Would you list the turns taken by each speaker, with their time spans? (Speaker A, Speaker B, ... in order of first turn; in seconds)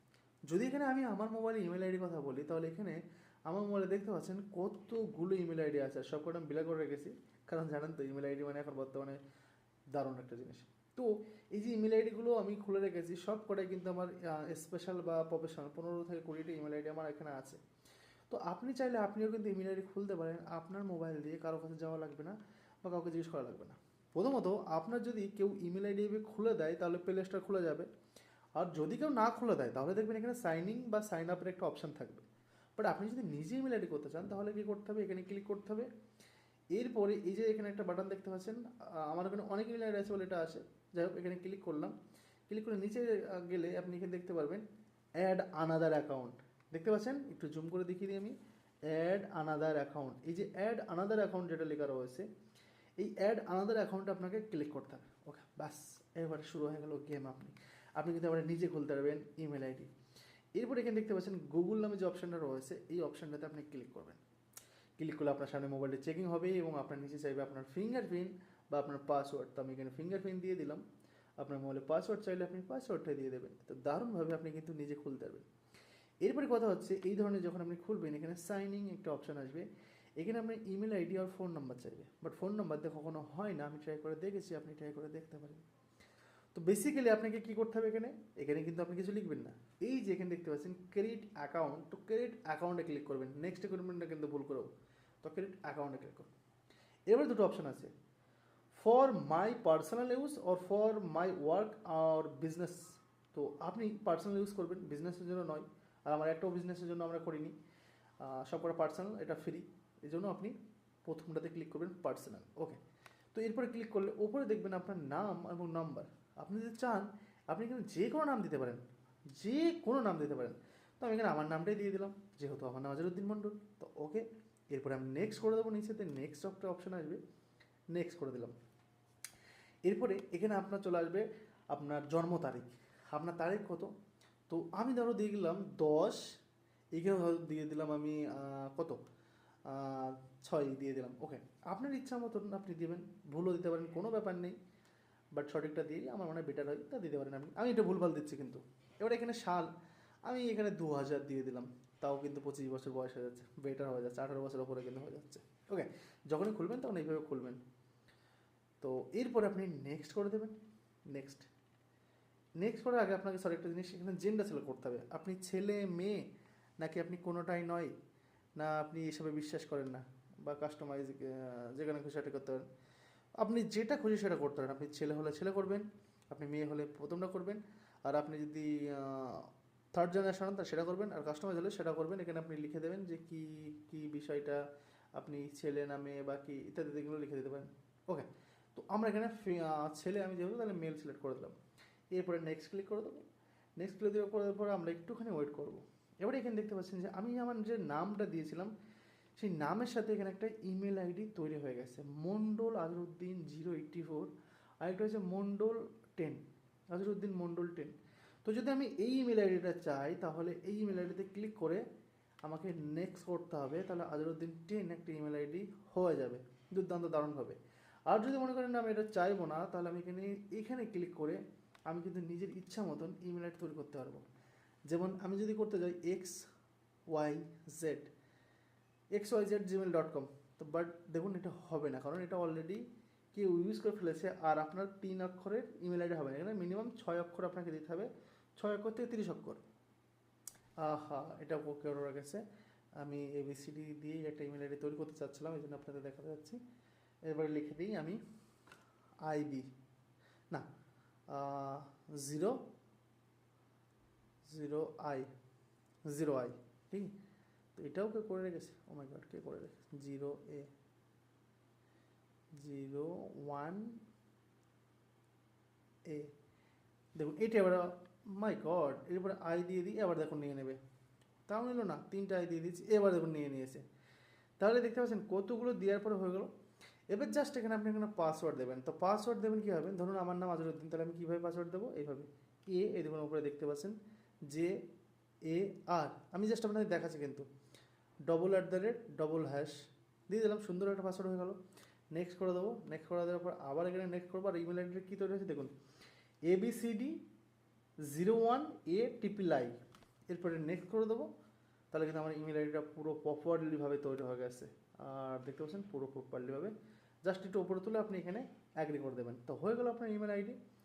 Speaker A: 0.5-9.2, 9.9-17.6, 18.3-27.9, 28.6-35.9, 36.7-41.9, 42.5-44.7, 45.2-48.4, 48.9-52.3, 53.0-59.9, 60.5-64.2, 65.0-70.8, 71.4-75.5, 76.2-79.7, 80.2-85.6, 86.5-94.7, 95.2-96.3, 97.1-97.9, 98.7-107.5, 108.2-112.8, 113.3-127.2, 127.9-128.6, 129.8-133.9, 134.5-136.3, 136.9-139.0, 139.7-144.6, 145.3-149.7, 150.2-157.6, 158.8-160.6, 161.1-161.5, 162.6-166.2, 166.8-167.9, 168.6-172.7, 173.4-184.6, 185.1-191.6, 192.1-193.2, 193.8-198.7, 199.4-211.8, 212.4-224.2, 224.9-226.4, 227.1-228.1, 229.1-239.6, 240.8-242.4, 243.0-246.6, 247.2-248.2, 249.2-249.7, 251.3-252.6, 254.4-255.3, 256.1-257.1, 257.7-260.7, 262.5-264.0, 266.1-266.3, 267.1-270.8, 271.5-273.8, 274.6-276.5, 277.1-284.0, 284.5-284.8, 285.4-287.4, 288.3-291.6, 292.1-295.7, 296.5-297.2, 298.0-301.3, 301.9-310.6